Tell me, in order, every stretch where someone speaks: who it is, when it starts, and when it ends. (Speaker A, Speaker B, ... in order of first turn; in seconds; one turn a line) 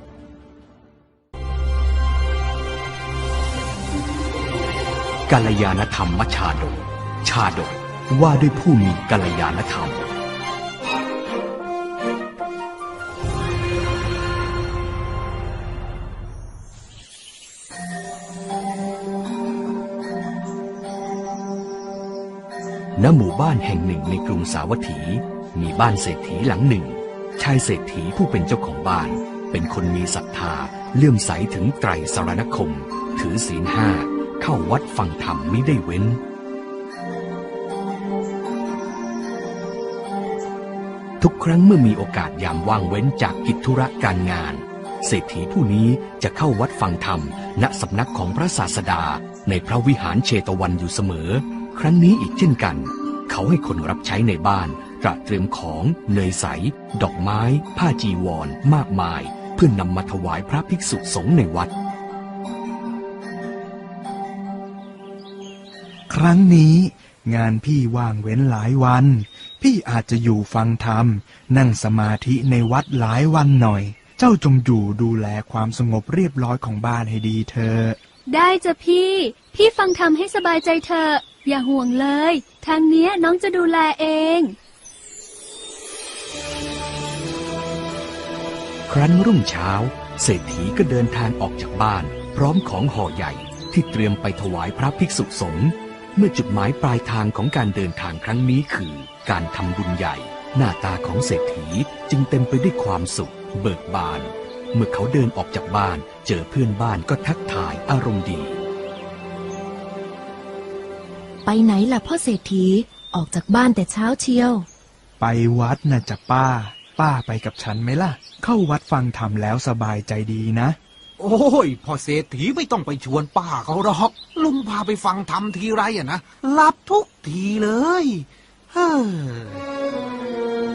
Speaker A: 5.3-10.1
Speaker A: 22.9-36.2
Speaker A: 41.2-61.7
Speaker B: 66.1-78.0
Speaker C: 78.3-84.5
Speaker A: 88.9-108.6
Speaker D: 111.5-114.7
Speaker B: 115.2-120.8
Speaker E: 121.2-129.6